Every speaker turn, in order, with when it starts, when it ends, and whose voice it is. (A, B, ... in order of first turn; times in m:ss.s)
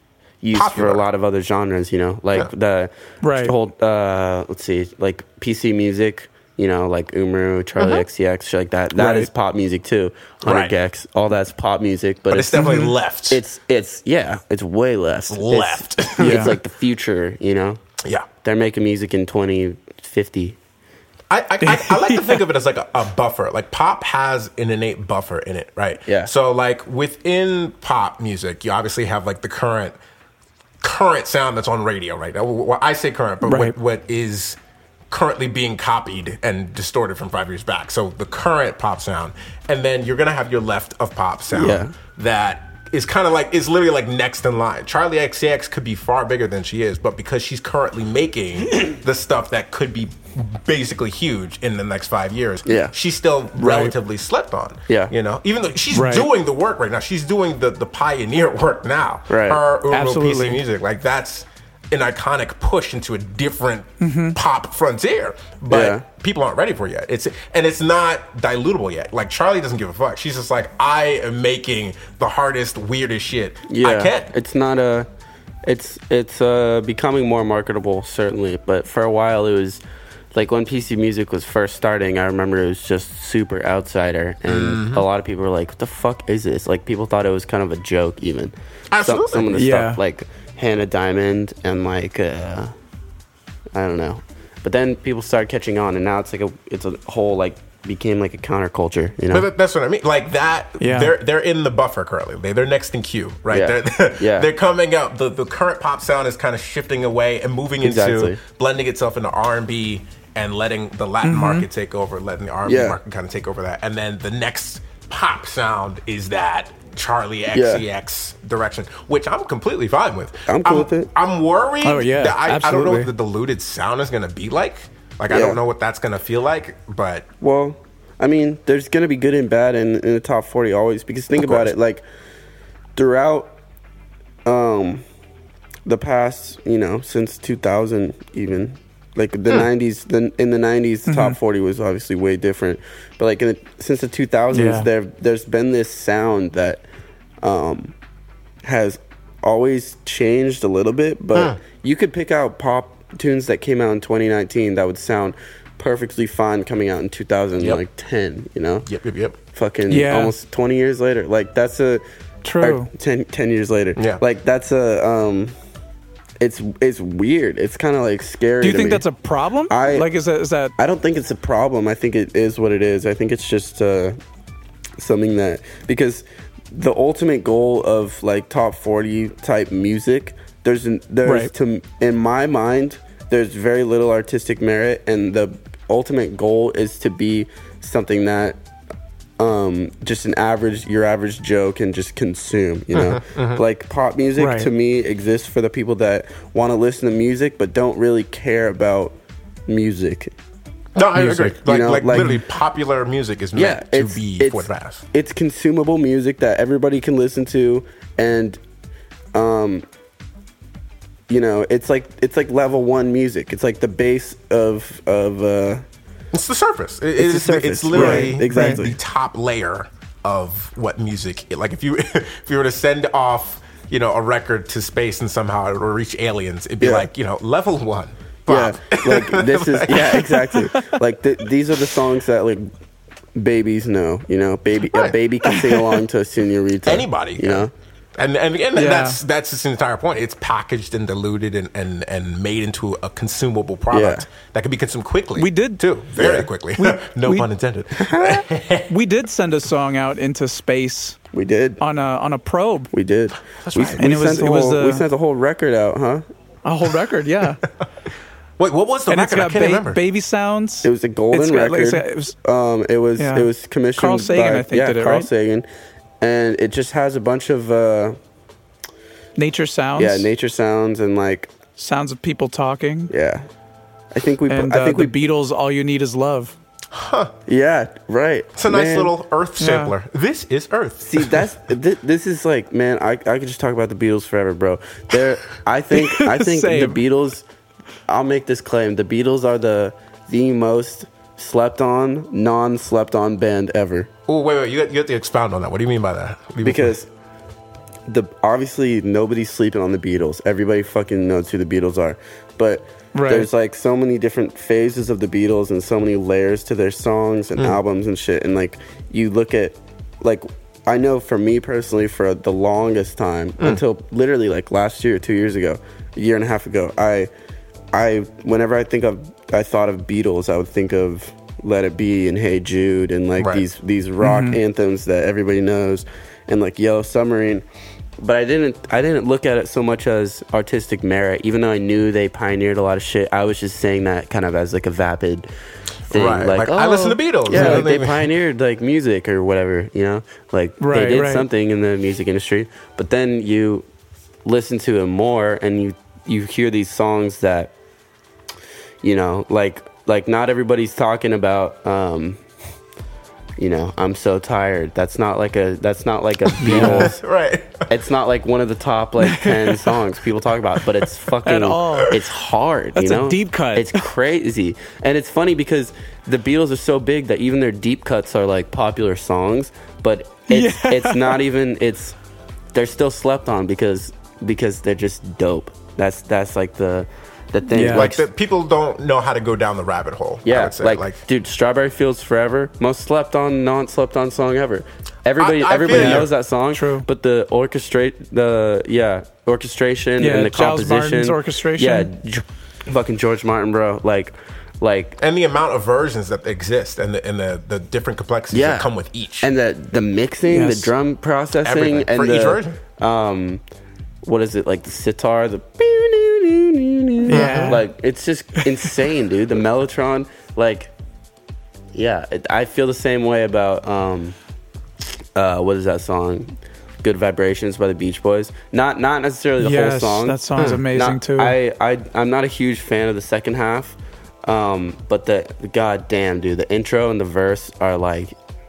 0:00.4-0:12.7 A
0:00.5-0:01.0 B
0:03.2-0:03.5 C
0:07.8-0:08.0 C
0:09.0-0:09.3 C
0:10.4-0:10.7 B
0:12.3-0:13.4 B
0:12.6-0:12.9 C
0:13.3-0:17.8 A
0:15.3-0:16.6 B
0:16.2-0:16.5 C
0:18.4-0:20.6 A
0:21.3-0:30.0 B
0:21.6-0:22.4 C
0:26.1-0:26.3 A
0:30.8-0:34.6 B
0:33.4-0:33.7 C
0:35.1-1:14.3 B
0:41.5-0:42.0 A
0:52.7-0:52.9 A
0:53.6-0:53.9 C
0:55.9-0:56.3 C
0:59.3-0:59.6 A
0:59.9-1:00.6 C
1:04.0-1:04.4 C
1:05.7-1:06.0 A
1:13.7-1:15.1 A
1:15.6-1:19.8 A
1:20.3-1:32.7 A
1:24.5-1:25.0 B
1:28.9-1:29.6 B
1:29.5-1:30.0 C
1:33.7-1:39.5 A
1:39.3-2:07.3 B
1:40.8-1:41.1 C
1:43.5-1:44.5 A
1:47.8-1:48.4 A
1:51.2-1:51.7 C
1:52.7-1:53.0 A
1:57.5-1:57.8 A
2:00.5-2:01.1 A
2:01.8-2:03.1 C
2:05.3-2:05.6 A
2:07.4-2:12.0 A
2:11.4-2:11.7 B
2:13.0-2:13.5 A
2:14.5-2:15.0 A
2:15.9-2:26.8 A
2:21.1-2:21.4 C
2:24.5-2:24.9 C
2:27.4-2:28.0 A
2:28.6-2:38.9 A
2:31.4-2:31.6 B
2:38.9-2:39.4 B
2:39.5-2:42.0 A
2:39.9-2:40.3 C
2:42.4-2:42.9 C
2:42.6-2:45.6 A
2:44.0-2:44.2 B
2:46.4-2:49.0 A
2:48.6-2:50.7 C
2:49.7-2:50.1 A
2:50.8-2:54.2 A
2:55.0-3:08.6 A
3:01.2-3:01.5 C
3:09.4-3:19.2 A
3:12.9-3:13.6 B
3:14.4-3:14.7 C
3:19.7-3:20.3 A
3:21.0-3:25.0 B
3:21.2-3:21.6 C
3:21.6-3:22.4 A
3:23.6-3:28.6 A
3:29.3-3:29.8 A
3:31.3-3:35.8 A
3:36.3-3:50.4 B
3:37.2-3:39.0 A
3:37.9-3:38.8 C
3:46.8-3:47.1 A
3:48.5-3:52.7 A
3:53.4-3:57.7 A
3:55.5-3:55.9 C
3:56.9-4:08.9 B
3:58.8-3:59.2 C
4:03.9-4:04.3 A
4:05.4-4:05.9 C
4:06.2-4:06.5 A
4:06.8-4:07.5 C
4:07.9-4:08.5 A
4:08.9-4:11.2 C
4:11.3-4:11.8 A
4:11.8-4:12.9 C
4:12.9-4:16.2 A
4:13.6-4:14.1 B
4:14.0-4:15.0 C
4:16.6-4:17.6 C
4:18.6-4:20.0 B
4:19.1-4:22.4 C
4:20.8-4:25.7 A
4:23.2-4:25.3 C
4:26.2-4:28.2 A
4:29.4-4:30.3 C
4:30.0-4:31.5 A
4:31.8-4:33.1 C
4:33.1-4:33.5 A
4:34.1-4:35.1 A
4:34.5-4:36.6 C
4:36.9-4:37.3 B
4:37.5-4:39.1 A
4:38.6-4:41.4 B
4:39.6-4:39.9 C
4:41.0-4:47.4 A
4:45.9-4:47.0 C
4:48.1-4:54.1 A
4:54.3-4:57.0 B
4:56.6-4:57.1 A
4:58.1-5:17.3 A
5:03.1-5:03.5 C
5:17.9-5:27.6 A
5:23.4-5:23.6 B
5:24.2-5:24.6 C
5:28.2-5:35.5 A
5:36.1-5:43.9 A
5:36.1-5:38.3 B
5:37.5-5:37.8 C
5:40.8-5:41.5 C
5:44.4-5:47.7 A
5:49.0-5:52.4 A
5:53.6-5:57.2 A
5:56.6-5:57.1 C
5:56.6-5:57.9 B
5:57.9-6:12.2 A
5:59.2-6:00.0 C
6:01.5-6:02.2 C
6:03.0-6:04.0 C
6:10.5-6:11.4 C
6:12.7-6:18.2 A
6:17.7-6:18.1 C
6:17.8-6:21.2 B
6:20.4-6:35.2 A
6:25.4-6:26.3 B
6:25.9-6:27.0 C
6:30.2-6:32.1 C
6:35.2-6:39.5 B
6:38.5-6:38.9 A
6:39.4-6:43.6 A
6:40.5-6:40.9 C
6:41.6-6:42.8 B
6:44.2-6:50.9 A
6:47.3-6:47.8 C
6:47.3-6:47.8 B
6:51.9-6:54.4 A
6:55.4-7:08.4 A
6:59.6-7:01.6 C
7:00.6-7:00.8 B